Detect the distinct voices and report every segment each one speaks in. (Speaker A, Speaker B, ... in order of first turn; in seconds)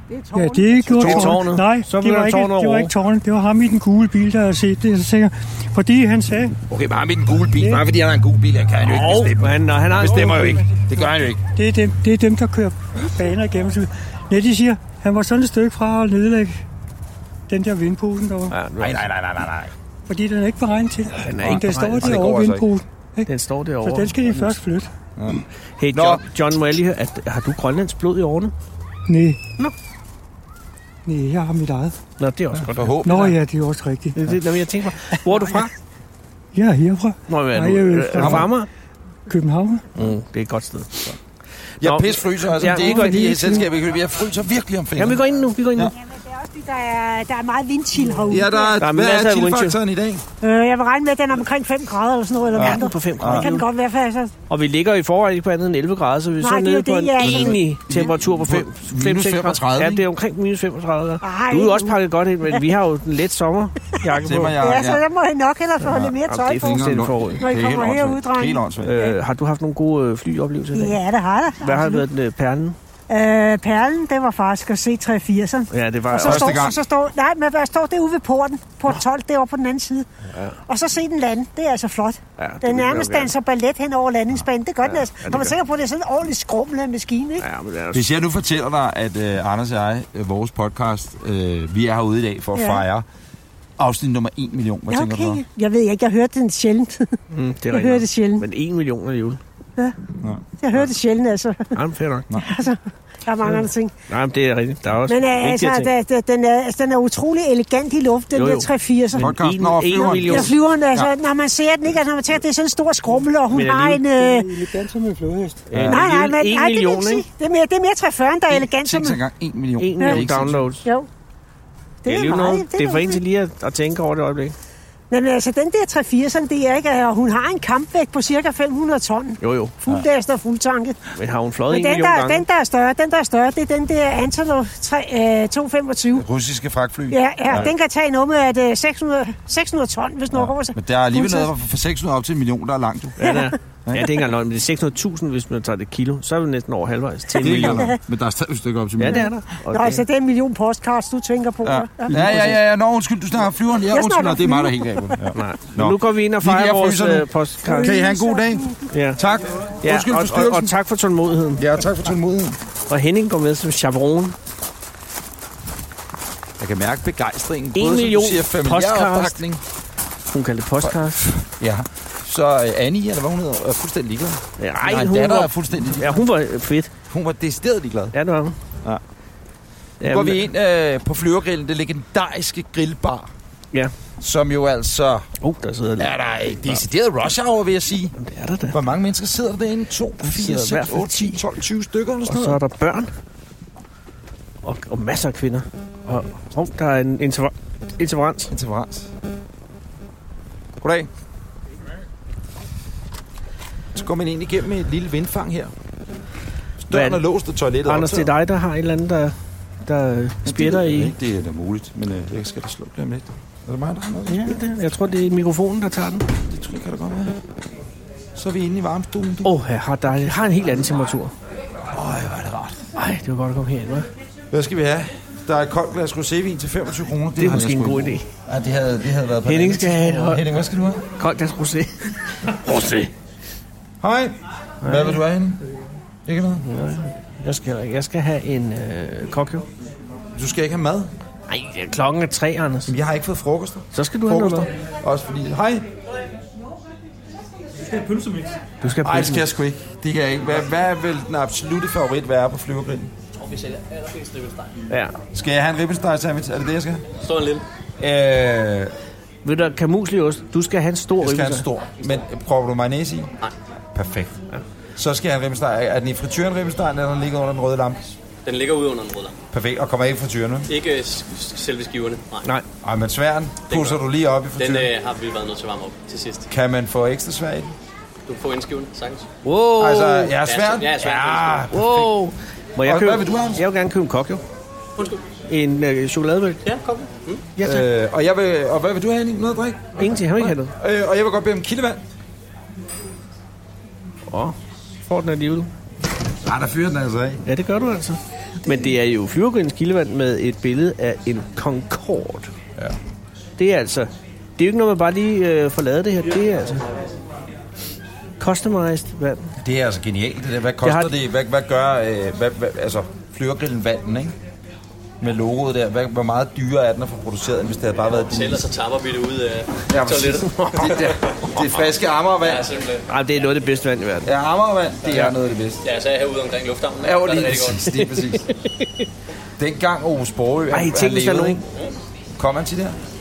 Speaker A: 0.3-6.6, 7.6-7.8, 11.6-16.6, 17.5-18.6, 20.1-23.3, 23.8-24.9, 29.1-29.4, 31.1-32.0, 33.0-34.2, 36.5-38.6, 39.3-39.8, 42.7-43.6, 114.1-115.8
Speaker B: 0.9-1.5, 6.7-11.4, 18.8-19.7, 21.4-22.7, 25.1-26.2, 32.5-33.4, 38.2-38.5, 41.8-45.2, 48.3-50.2, 52.5-53.5, 57.2-60.1, 64.1-65.0, 65.9-69.0, 76.2-76.8, 87.9-93.0, 93.8-95.4, 109.2-111.1, 115.7-116.0, 118.5-120.7, 136.2-137.7, 140.3-143.3, 143.8-144.1, 147.4-149.3, 151.6-160.7, 161.6-162.6, 166.6-169.6, 170.8-176.2, 177.1-178.1, 180.0-183.3, 184.2-185.3, 186.0-188.2, 188.7-192.6, 198.5-199.1, 200.8-201.1, 203.9-205.7, 206.8-208.3, 210.4-214.6, 216.5-217.4, 218.3-219.5, 221.9-222.8, 224.5-231.1, 234.0-235.6, 236.2-236.6, 240.3-241.1, 242.9-245.9, 248.9-253.1, 255.3-257.1, 258.0-258.9, 261.2-263.3, 263.9-264.4, 264.9-268.1, 269.5-270.7, 272.8-274.9, 276.5-277.7, 279.8-282.2, 282.8-283.6, 287.6-292.0, 296.4-297.4, 309.6-314.3, 315.2-318.7, 319.9-322.7, 324.2-325.8, 327.0-328.5, 329.6-331.6, 332.4-333.0
Speaker C: 0.9-2.9, 8.8-10.6, 18.5-19.0, 21.2-22.2, 23.2-24.5, 25.8-28.5, 32.2-33.4, 34.1-35.7, 37.3-38.7, 40.0-41.0, 41.8-43.6, 45.0-45.9, 48.8-49.8, 52.5-53.6, 54.5-64.5, 65.9-67.4, 68.8-71.0, 71.6-72.8, 75.7-76.6, 80.3-80.6, 82.4-83.3, 84.8-85.5, 87.4-88.1, 97.3-99.4, 101.7-102.3, 103.4-105.9, 108.3-110.5, 113.5-114.0, 115.7-117.2, 119.8-120.8, 122.0-124.5, 129.4-129.8, 131.1-132.4, 143.2-147.9, 149.0-150.0, 152.1-152.6, 155.3-157.9, 158.9-159.2, 159.8-161.6, 162.9-164.3, 167.7-169.4, 170.3-171.3, 174.6-176.9, 178.1-178.6, 180.0-180.4, 185.4-186.8, 188.2-188.8, 190.2-191.4, 192.3-193.1, 194.6-198.5, 206.9-207.2, 207.8-211.1, 214.3-216.3, 219.4-221.3, 222.9-224.1, 227.4-228.3, 229.4-230.6, 231.2-233.1, 234.8-235.2, 236.6-239.7, 241.5-242.9, 243.9-244.7, 248.8-249.5, 254.9-255.2, 259.4-261.7, 279.4-280.3, 281.7-284.4, 285.5-286.6, 287.6-287.9, 289.9-290.7, 294.3-294.6, 295.1-295.7, 297.4-302.5, 303.6-306.8, 308.4-309.5, 310.8-311.1, 320.4-321.0, 323.1-324.3, 328.3-329.0, 330.7-331.6
Speaker D: 46.0-48.8, 50.4-54.3, 56.4-57.6, 61.2-62.0, 64.6-69.1, 70.7-72.0, 73.1-80.1, 80.7-87.4, 92.5-92.8, 94.9-97.2, 97.7-98.5, 100.6-101.7, 102.4-103.9, 105.1-109.3, 110.2-114.5, 115.8-119.2, 120.8-121.1, 122.0-123.2, 125.1-131.0, 131.7-136.2, 137.1-141.5, 143.2-143.5, 147.4-148.0, 149.1-152.4, 153.9-154.9, 157.6-158.8
Speaker E: 247.9-248.5, 253.3-254.8, 257.2-257.6, 268.4-269.4, 270.7-272.5, 273.7-274.1, 274.6-276.5, 278.2-279.3, 280.3-281.7, 286.6-287.5, 318.1-323.1, 325.8-328.1, 331.7-331.9